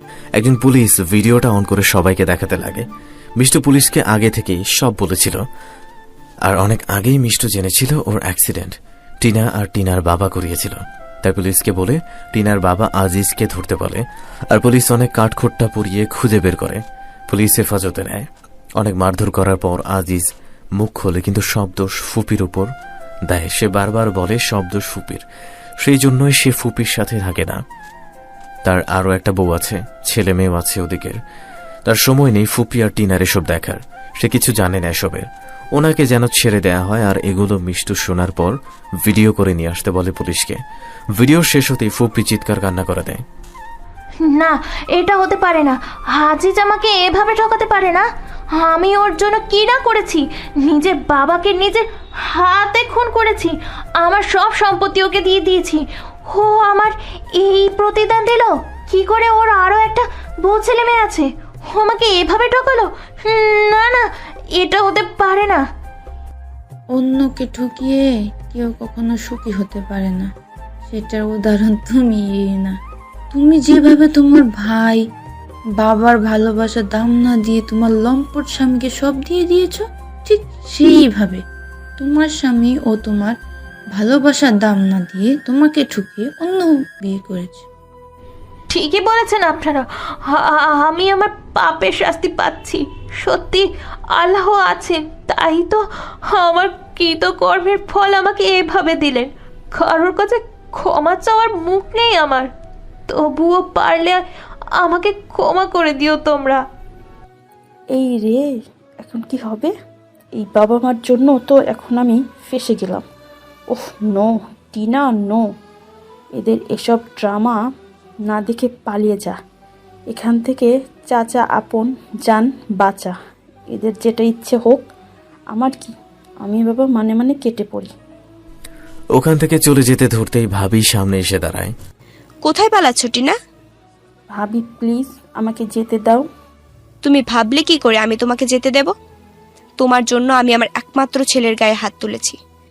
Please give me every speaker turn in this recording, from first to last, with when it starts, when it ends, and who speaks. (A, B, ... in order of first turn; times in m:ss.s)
0:00.4-0:02.8 A
0:03.4-0:05.4 A
0:06.4-0:18.3 A
0:18.8-0:20.3 A
0:20.8-0:22.7 A
0:23.3-0:25.2 A
0:25.8-0:27.6 A
0:28.6-0:31.2 A
0:31.8-0:40.6 A
0:41.2-0:43.2 A
0:44.2-1:05.6 B
1:06.9-1:10.3 C
1:10.9-1:12.8 C
1:13.3-1:15.0 C
1:15.8-1:21.4 C
1:22.0-1:23.4 C
1:23.9-1:27.6 C
1:28.7-1:42.5 B
1:43.1-1:44.2 B
1:44.8-1:46.6 B
1:47.9-1:48.5 D
1:49.0-1:49.7 D
1:50.4-1:53.0 D
1:53.7-1:55.4 D
1:56.4-1:57.6 D
1:58.3-1:59.4 D
2:00.1-2:03.1 D
2:03.7-2:04.8 D
2:05.5-2:07.9 D
2:09.1-2:11.7 A
2:12.4-2:13.4 E
2:14.3-2:16.2 D
2:17.0-2:18.9 E
2:19.8-2:22.4 E